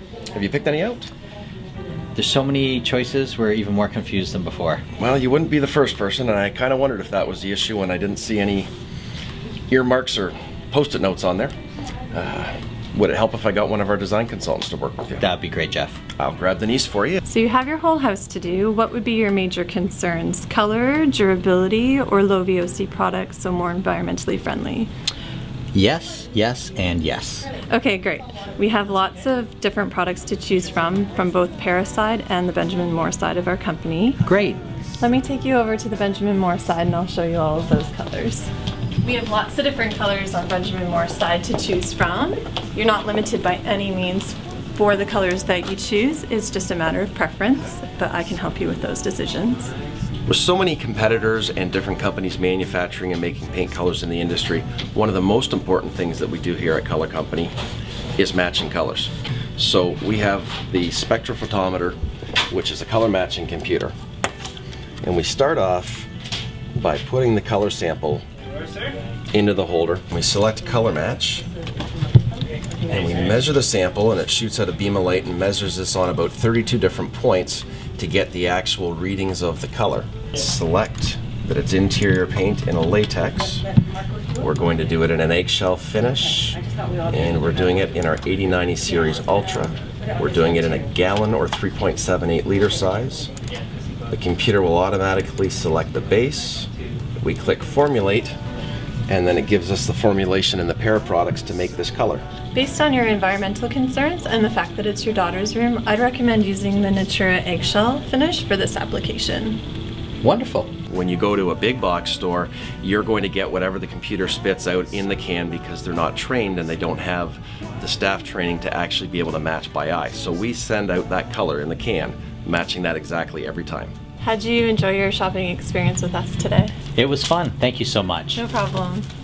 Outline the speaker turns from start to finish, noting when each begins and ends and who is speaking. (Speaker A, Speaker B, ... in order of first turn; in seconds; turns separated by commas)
Speaker A: 0.3-1.1, Speaker B: 2.1-4.8, Speaker A: 5.0-8.7, Speaker A: 9.7-11.6, Speaker A: 12.1-15.2, Speaker B: 15.2-16.0, Speaker A: 16.2-17.2, Speaker C: 17.2-24.9, Speaker B: 25.7-27.5, Speaker C: 27.7-34.2, Speaker B: 34.2-34.6, Speaker C: 35.0-38.5, Speaker C: 39.0-49.7, Speaker A: 50.3-57.5, Speaker A: 58.2-62.0, Speaker A: 62.5-63.9, Speaker A: 65.0-66.1, Speaker A: 66.7-68.2, Speaker A: 69.3-71.5, Speaker A: 72.8-83.7, Speaker A: 84.3-93.3, Speaker A: 94.1-98.4, Speaker A: 99.1-102.2, Speaker C: 102.5-109.6, Speaker B: 110.2-110.7, Speaker A: 110.9-123.9, Speaker C: 124.2-126.7, Speaker B: 127.0-128.4, Speaker C: 128.3-129.1